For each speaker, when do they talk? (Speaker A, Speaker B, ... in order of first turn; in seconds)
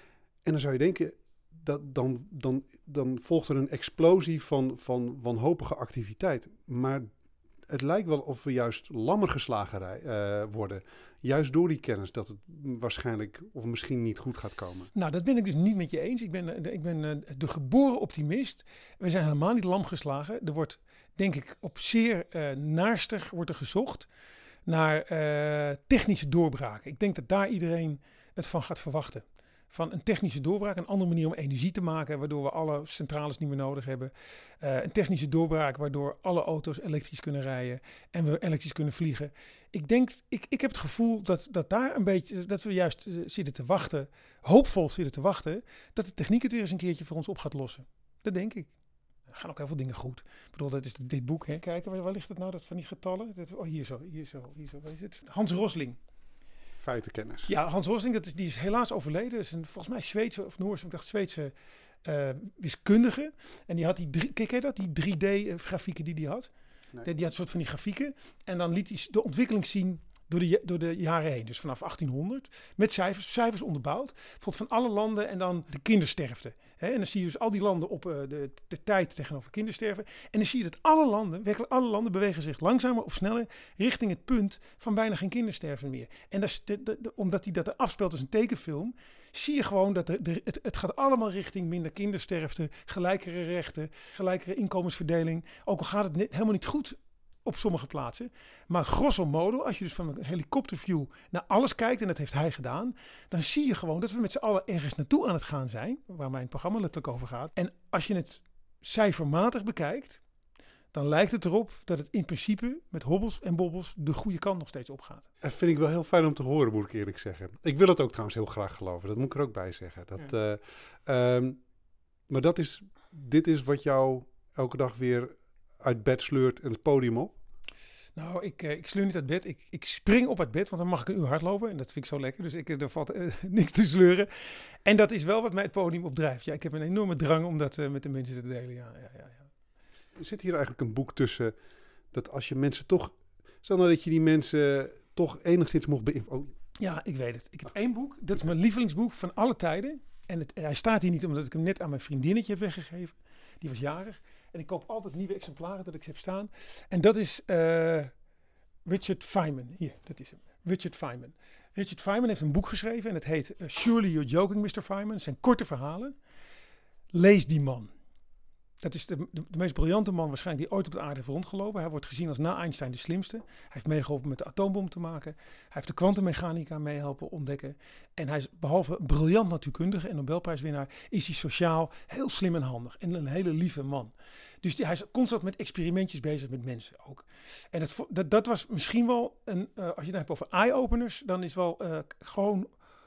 Speaker A: 0.4-7.0, 7.7-14.9, 56.8-57.5, 115.4-121.6, 122.3-127.4, 140.2-141.5, 142.1-146.5
Speaker B: 14.9-24.1, 24.6-48.7, 49.3-56.0, 57.5-61.5, 62.0-66.5, 67.0-110.2, 110.9-115.3, 128.2-134.3, 134.8-139.5, 146.8-158.1, 158.8-166.1, 167.1-167.9, 168.8-192.7